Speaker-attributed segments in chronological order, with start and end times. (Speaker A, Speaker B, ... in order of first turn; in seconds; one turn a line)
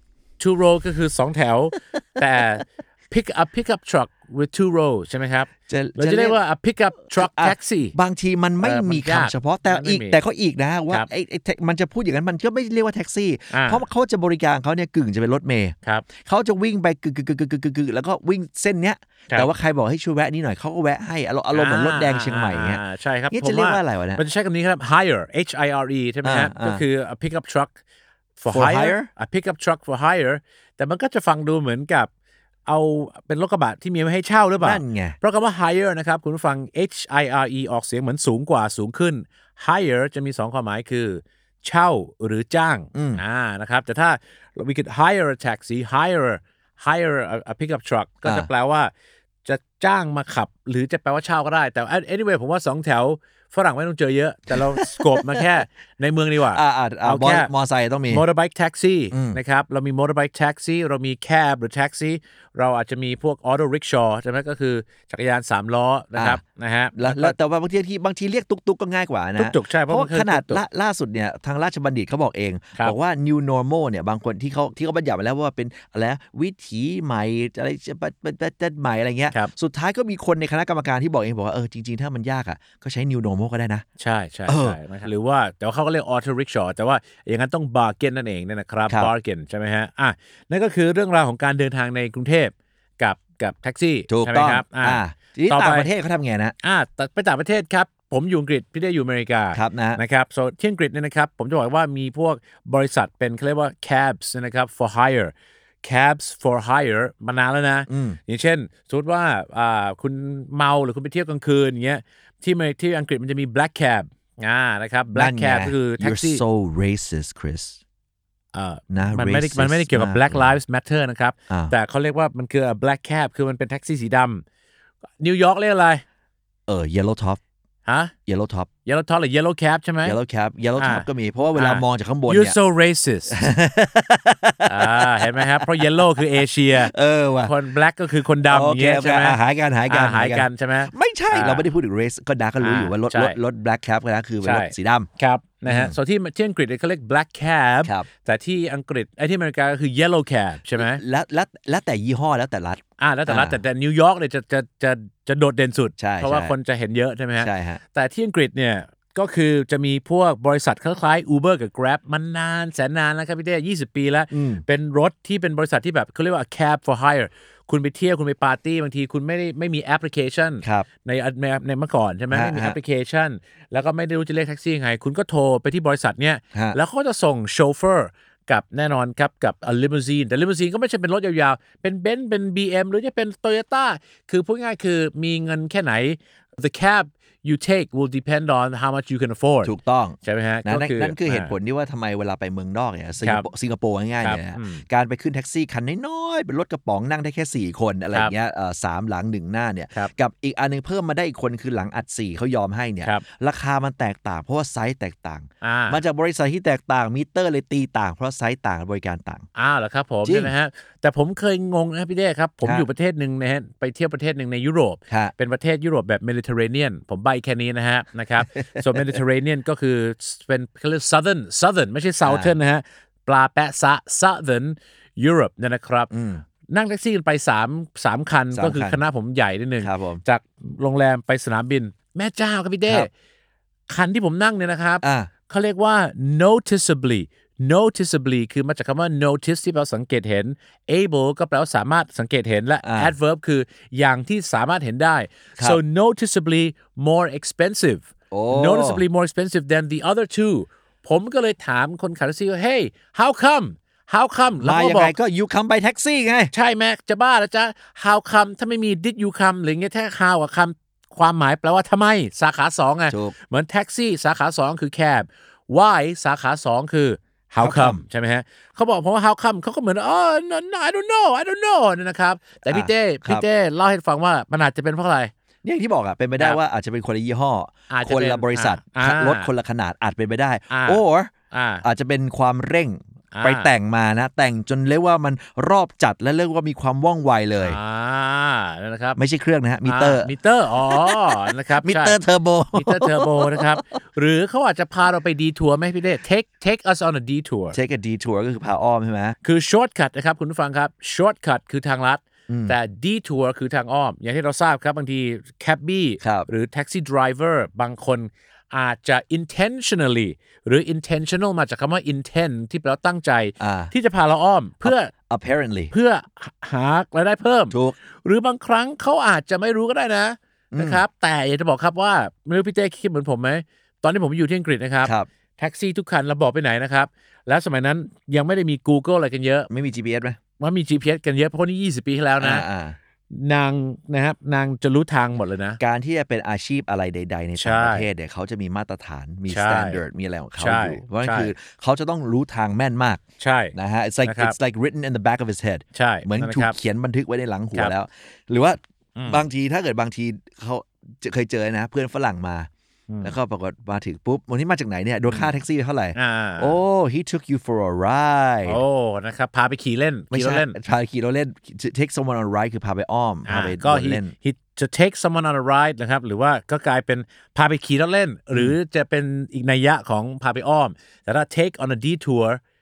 Speaker A: 0.4-8.0
Speaker B: 5.7-6.4
Speaker B: 7.1-24.2
Speaker A: 8.6-10.2
Speaker A: 13.5-13.8
Speaker A: 21.5-27.7
Speaker B: 26.2-26.8
Speaker A: 28.4-32.1
Speaker B: 28.5-29.1
Speaker A: 32.6-48.9
Speaker B: 34.6-35.2
Speaker B: 42.9-43.2
Speaker A: 49.4-57.5
Speaker B: 54.5-55.4
Speaker B: 56.5-58.2
Speaker A: 58.1-67.3
Speaker B: 59.1-59.4
Speaker B: 66.1-66.4
Speaker B: 66.9-83.8
Speaker A: 69.4-70.6
Speaker A: 84.0-95.9
Speaker B: 84.5-84.8
Speaker B: 94.1-96.5
Speaker A: 96.6-116.4
Speaker B: 99.5-100.0
Speaker B: 107.9-108.2
Speaker B: 115.1-117.8
Speaker A: 118.5-124.4
Speaker B: 118.9-120.6
Speaker A: 125.2-126.0
Speaker B: 126.7-127.4
Speaker A: 127.8-128.1
Speaker B: 128.3-128.7
Speaker A: 128.8-130.2
Speaker B: 130.0-132.6
Speaker A: 130.8-133.4
Speaker B: 133.3-137.5
Speaker A: 134.7-136.9
Speaker A: 137.4-141.7
Speaker B: 138.4-145.1
Speaker A: 142.6-143.4
Speaker A: 144.4-151.0
Speaker B: 145.7-145.9
Speaker B: 150.8-153.6
Speaker A: 153.0-191.5
Speaker B: 156.0-156.5
Speaker B: 157.4-157.8
Speaker B: 164.3-164.6
Speaker B: 172.3-172.8
Speaker B: 189.6-209.5
Speaker A: 194.2-194.8
Speaker A: 205.6-206.0
Speaker A: 209.6-226.1
Speaker B: 210.2-210.5
Speaker B: 218.5-219.2
Speaker B: 222.2-222.5
Speaker B: 226.1-226.4
Speaker A: 226.7-233.1
Speaker B: 228.5-229.0
Speaker B: 229.8-230.2
Speaker A: 233.9-255.1
Speaker B: 235.0-235.3
Speaker B: 242.8-243.1
Speaker B: 248.3-249.0
Speaker B: 254.6-256.5
Speaker A: 256.5-275.3
Speaker B: 267.6-268.0
Speaker B: 272.6-273.4
Speaker B: 275.6-281.3
Speaker A: 277.9-279.5
Speaker A: 280.7-281.8
Speaker B: 281.8-287.8
Speaker A: 283.3-283.7
Speaker A: 287.6-289.2
Speaker B: 289.2-290.3
Speaker A: 289.8-292.2
Speaker B: 290.9-293.8
Speaker A: 292.8-297.8
Speaker B: 297.7-299.4
Speaker A: 299.4-315.1
Speaker B: 302.5-302.7
Speaker B: 306.2-306.5
Speaker B: 313.6-313.9
Speaker B: 314.8-315.9
Speaker A: 315.9-329.7
Speaker B: 317.7-317.9
Speaker B: 320.7-321.0
Speaker B: 329.7-330.4
Speaker A: 330.6-332.6
Speaker B: 332.4-333.0
Speaker A: 333.3-335.8
Speaker B: 335.8-343.2
Speaker A: 337.6-338.1
Speaker A: 339.5-340.0
Speaker A: 340.6-341.5
Speaker A: 343.4-343.7
Speaker B: 343.7-352.7
Speaker A: 344.2-344.6
Speaker A: 345.9-346.8
Speaker A: 349.1-349.4
Speaker A: 353.1-353.3
Speaker B: 353.2-358.8
Speaker A: 356.1-356.8
Speaker A: 358.7-360.8
Speaker B: 360.3-364.3
Speaker A: 363.5-372.6